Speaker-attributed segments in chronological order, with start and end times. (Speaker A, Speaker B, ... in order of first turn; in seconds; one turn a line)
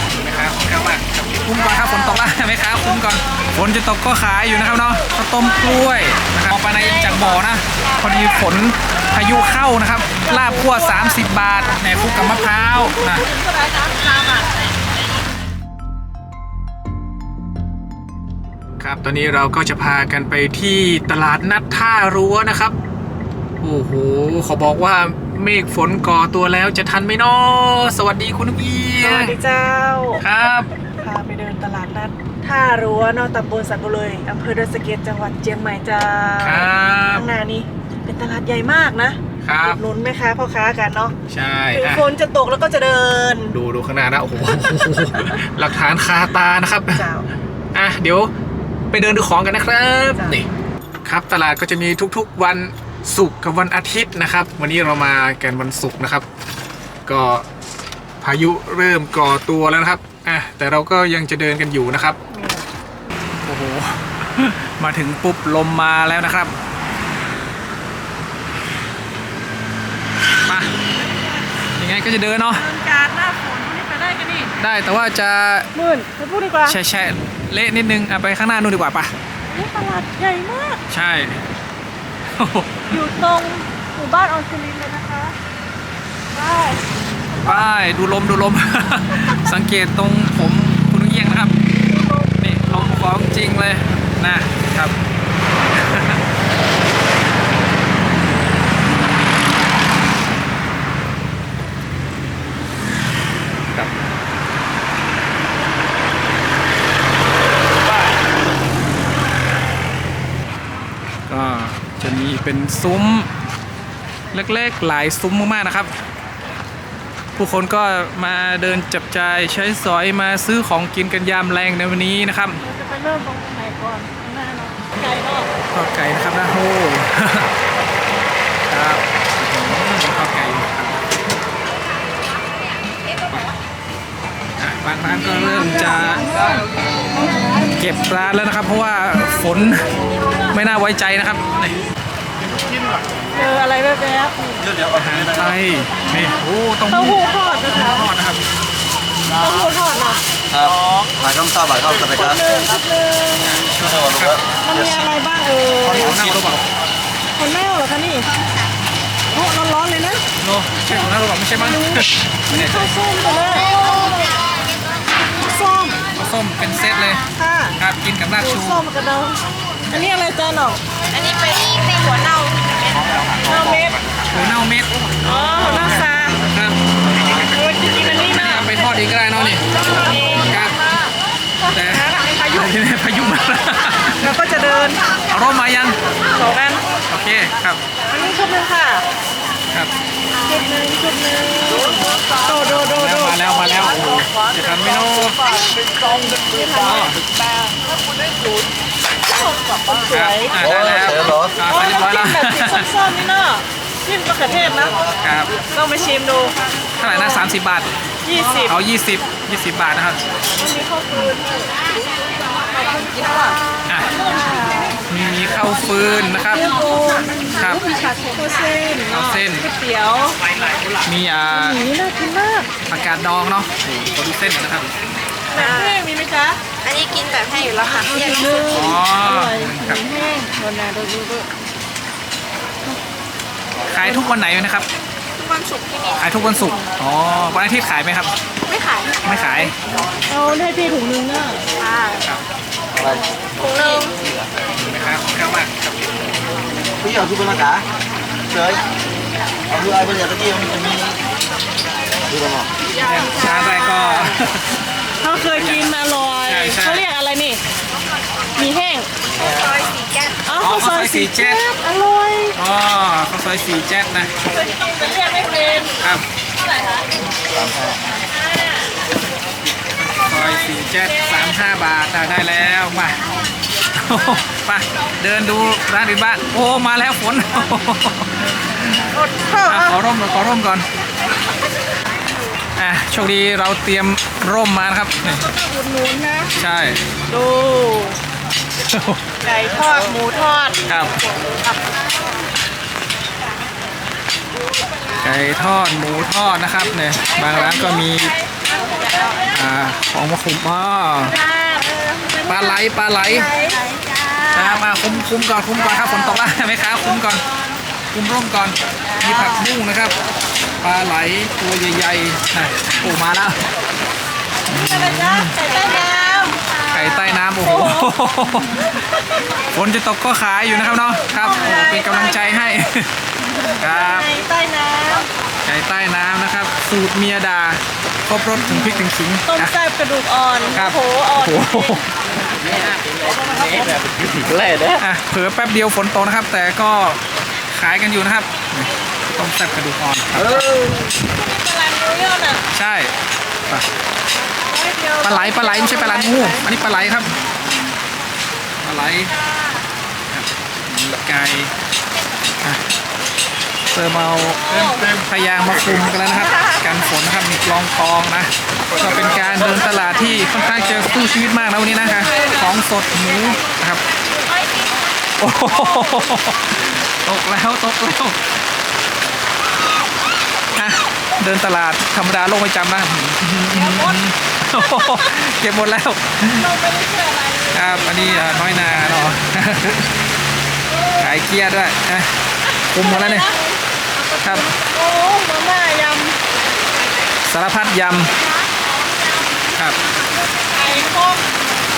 Speaker A: 0.1-13.3
Speaker B: 10.2-14.5
Speaker A: 18.8-22.8
Speaker A: 23.6-29.4
Speaker B: 29.0-30.2
Speaker A: 30.2-30.7
Speaker B: 31.0-41.1
Speaker A: 36.4-37.3
Speaker A: 39.4-39.8
Speaker A: 41.3-42.1
Speaker B: 41.7-43.6
Speaker A: 43.5-47.0
Speaker B: 44.6-45.4
Speaker B: 46.9-47.3
Speaker A: 47.7-48.3
Speaker A: 48.9-50.5
Speaker B: 50.2-50.4
Speaker A: 51.0-56.3
Speaker A: 57.1-57.5
Speaker A: 58.2-62.2
Speaker B: 62.3-62.6
Speaker A: 63.3-66.5
Speaker A: 70.4-70.7
Speaker B: 71.0-71.4
Speaker A: 71.8-72.6
Speaker B: 72.5-74.5
Speaker A: 74.6-75.7
Speaker B: 75.7-76.8
Speaker A: 76.7-79.1
Speaker B: 79.5-80.8
Speaker A: 80.9-81.4
Speaker A: 82.3-83.0
Speaker B: 82.9-85.3
Speaker B: 86.3-87.6
Speaker A: 87.4-91.5
Speaker A: 92.4-95.0
Speaker A: 95.7-96.2
Speaker A: 111.3-113.3
Speaker A: 114.3-115.9
Speaker A: 117.4-122.6
Speaker B: 122.6-125.5
Speaker A: 125.7-127.5
Speaker A: 128.7-131.1
Speaker A: 134.6-136.3
Speaker B: 135.4-137.7
Speaker A: 137.7-139.9
Speaker A: 140.5-141.8
Speaker B: 143.3-144.7
Speaker C: 144.6-145.6
Speaker A: 144.9-148.4
Speaker B: 146.9-148.1
Speaker B: 149.3-150.2
Speaker C: 150.5-152.6
Speaker B: 152.1-153.7
Speaker A: 153.5-154.4
Speaker C: 153.7-155.0
Speaker B: 154.6-156.3
Speaker C: 155.8-156.6
Speaker A: 155.9-156.7
Speaker B: 157.4-158.3
Speaker B: 159.3-160.2
Speaker A: 160.4-162.9
Speaker B: 161.6-164.4
Speaker D: 163.2-164.9
Speaker B: 165.3-166.0
Speaker A: 166.2-167.3
Speaker B: 167.3-167.8
Speaker A: 167.8-168.8
Speaker B: 168.4-170.8
Speaker D: 171.1-173.2
Speaker B: 173.4-174.0
Speaker A: 174.3-175.1
Speaker B: 175.2-176.4
Speaker A: 175.6-176.9
Speaker B: 177.2-178.8
Speaker A: 178.3-180.8
Speaker B: 179.7-180.7
Speaker B: 181.6-182.7
Speaker A: 181.7-184.2
Speaker B: 184.2-185.0
Speaker A: 185.3-186.0
Speaker B: 186.3-186.8
Speaker A: 187.1-187.8
Speaker B: 188.1-189.0
Speaker B: 190.4-193.4
Speaker A: 192.7-195.4
Speaker B: 195.4-197.1
Speaker A: 196.8-197.2
Speaker B: 199.3-200.6
Speaker A: 200.1-202.9
Speaker C: 200.6-201.6
Speaker B: 201.6-205.0
Speaker A: 205.2-205.5
Speaker B: 205.6-207.5
Speaker A: 207.0-207.9
Speaker B: 208.2-208.8
Speaker A: 208.7-210.2
Speaker B: 210.6-211.8
Speaker B: 212.5-215.1
Speaker A: 215.1-216.8
Speaker B: 216.2-220.4
Speaker D: 216.8-218.4
Speaker A: 217.5-217.9
Speaker A: 219.1-219.7
Speaker A: 221.0-221.8
Speaker B: 221.5-222.7
Speaker A: 222.9-224.9
Speaker B: 225.5-226.6
Speaker D: 225.6-226.0
Speaker D: 226.8-228.9
Speaker B: 227.9-231.5
Speaker A: 228.7-230.0
Speaker A: 233.9-234.9
Speaker B: 234.0-234.3
Speaker D: 235.4-236.7
Speaker A: 236.2-238.3
Speaker B: 238.7-239.1
Speaker D: 238.7-239.6
Speaker A: 239.2-239.7
Speaker B: 240.3-241.7
Speaker D: 241.8-242.2
Speaker C: 242.9-244.5
Speaker D: 243.6-244.2
Speaker B: 243.8-244.1
Speaker A: 244.8-246.1
Speaker C: 247.0-247.9
Speaker C: 248.5-248.8
Speaker C: 249.7-251.2
Speaker C: 252.2-252.7
Speaker B: 252.9-254.4
Speaker D: 253.0-253.8
Speaker A: 253.0-254.8
Speaker B: 255.2-257.6
Speaker A: 255.4-255.9
Speaker A: 256.4-257.1
Speaker B: 258.6-259.1
Speaker D: 259.4-260.4
Speaker C: 259.4-259.7
Speaker B: 260.4-262.6
Speaker A: 260.6-261.6
Speaker A: 262.6-264.3
Speaker B: 264.5-265.9
Speaker A: 266.0-266.3
Speaker C: 267.5-267.9
Speaker B: 268.3-268.9
Speaker A: 270.0-273.2
Speaker B: 270.2-271.6
Speaker A: 273.9-279.1
Speaker B: 279.1-280.0
Speaker A: 279.6-280.9
Speaker A: 282.8-285.4
Speaker B: 285.2-286.5
Speaker A: 286.6-287.0
Speaker B: 287.3-288.2
Speaker A: 288.8-289.2
Speaker B: 289.4-290.8
Speaker A: 290.9-291.2
Speaker B: 291.4-291.9
Speaker A: 295.2-298.4
Speaker B: 297.4-299.6
Speaker D: 298.9-299.4
Speaker A: 299.5-301.4
Speaker B: 301.2-302.8
Speaker A: 302.4-303.5
Speaker B: 303.3-303.8
Speaker D: 303.4-304.9
Speaker A: 304.5-307.4
Speaker A: 308.1-310.1
Speaker D: 309.2-309.7
Speaker A: 310.8-313.6
Speaker B: 314.7-316.6
Speaker A: 314.7-315.6
Speaker D: 315.6-317.3
Speaker A: 316.9-318.9
Speaker B: 317.6-319.6
Speaker A: 319.7-323.1
Speaker B: 321.1-322.8
Speaker B: 323.5-325.3
Speaker A: 323.8-324.3
Speaker A: 325.6-329.7
Speaker B: 328.7-332.0
Speaker A: 330.7-332.1
Speaker B: 333.4-333.9
Speaker C: 333.8-334.9
Speaker A: 334.9-340.8
Speaker B: 341.3-342.6
Speaker A: 342.7-343.1
Speaker B: 344.5-346.8
Speaker A: 345.2-347.3
Speaker A: 348.8-349.4
Speaker B: 349.3-349.8
Speaker A: 350.3-351.7
Speaker A: 353.9-364.0
Speaker B: 354.7-355.0
Speaker B: 358.9-359.3
Speaker D: 359.9-361.1
Speaker B: 361.9-364.6
Speaker D: 364.5-365.4
Speaker A: 365.4-368.4
Speaker B: 365.6-366.3
Speaker A: 370.8-376.7
Speaker B: 373.7-374.2
Speaker B: 374.8-375.3
Speaker B: 376.5-379.0
Speaker A: 377.7-380.2
Speaker B: 380.9-381.4
Speaker A: 381.2-382.3
Speaker B: 382.8-386.4
Speaker A: 382.9-383.6
Speaker A: 384.4-384.7
Speaker A: 387.4-388.3
Speaker B: 388.5-391.6